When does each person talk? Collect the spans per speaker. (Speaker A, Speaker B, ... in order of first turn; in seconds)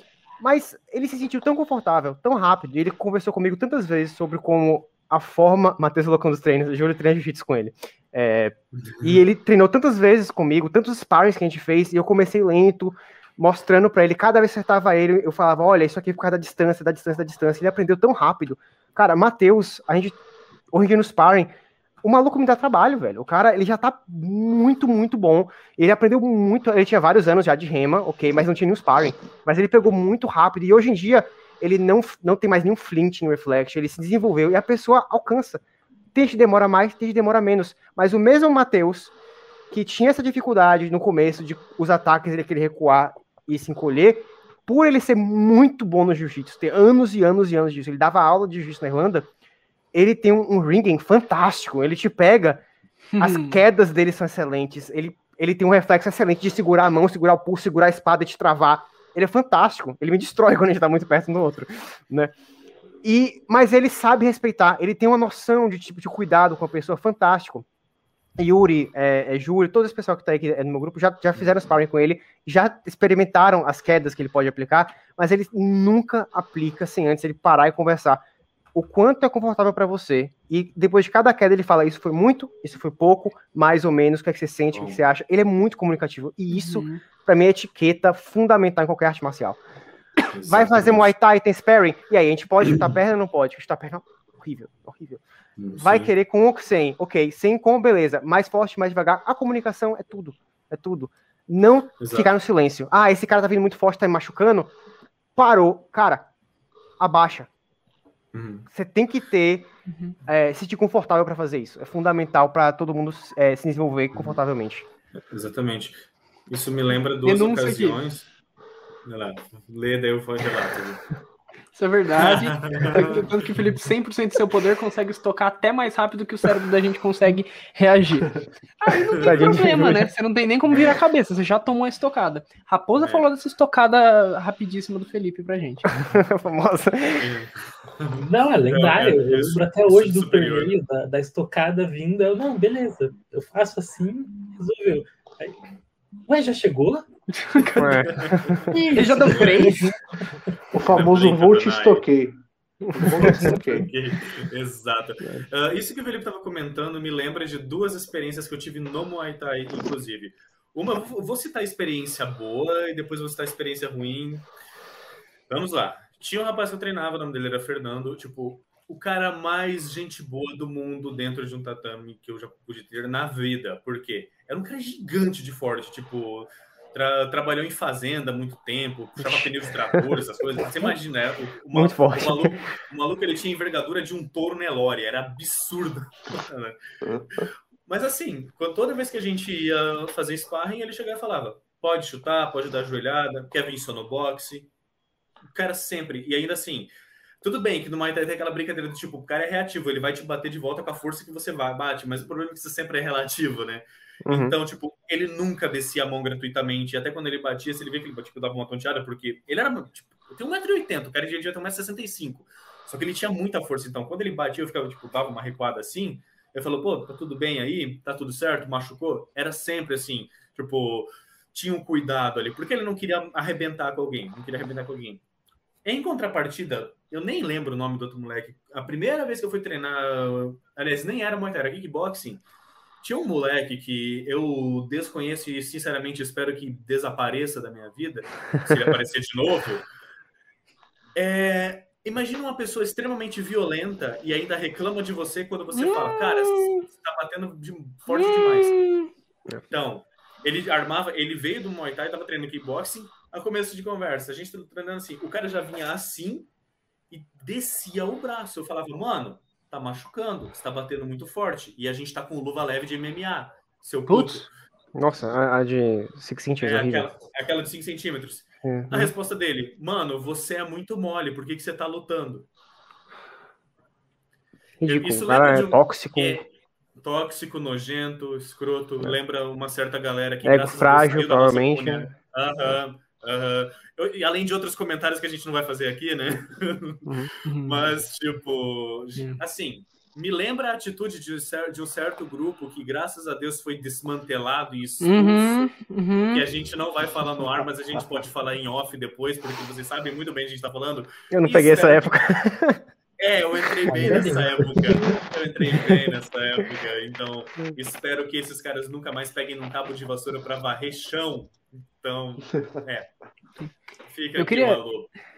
Speaker A: 0.4-20.1, 20.7-21.5, 22.0-35.6, 36.1-39.1, 39.7-49.3, 49.9-52.6, 53.2-62.3, 63.0-67.6, 68.4-78.2, 78.7-89.6, 90.4-95.2, 95.8-104.7, 105.3-106.3, 107.0-107.5, 108.7-109.7, 110.2-114.9, 129.2-130.1, 135.9-137.3, 147.8-149.0, 153.0-153.5, 179.2-180.0, 181.7-182.5, 204.2-204.5, 264.9-267.1, 268.6-269.1, 274.8-276.4, 280.4-282.1, 301.3-302.8, 303.8-304.3
Speaker B: 8.9-9.2, 84.7-85.0, 90.3-91.1, 92.6-92.9, 95.6-96.1, 102.0-102.3, 108.3-108.7, 114.1-114.4, 115.2-118.3, 119.0-121.1, 122.2-123.3, 129.1-129.9, 133.0-133.2, 137.1-140.7, 147.6-148.6, 149.2-149.7, 150.9-152.1, 153.0-164.5, 165.5-186.8, 187.4-194.7, 195.5-196.9, 197.4-225.2, 225.8-232.4, 233.0-239.8, 241.1-248.8, 249.7-256.5, 257.1-264.5, 266.6-272.5, 274.8-287.1, 287.6-295.7, 296.3-302.4, 303.2-313.1, 314.1-315.1
Speaker C: 53.1-53.6, 86.5-87.0, 109.9-110.2, 117.2-118.0, 121.7-135.9, 148.7-149.9, 245.7-246.8, 248.1-249.1, 264.1-264.5, 287.1-287.8, 295.0-296.4, 314.4-314.8
Speaker D: 138.2-145.6, 146.3-147.1, 304.0-305.2
Speaker E: 150.7-152.4, 152.9-153.9, 187.0-187.4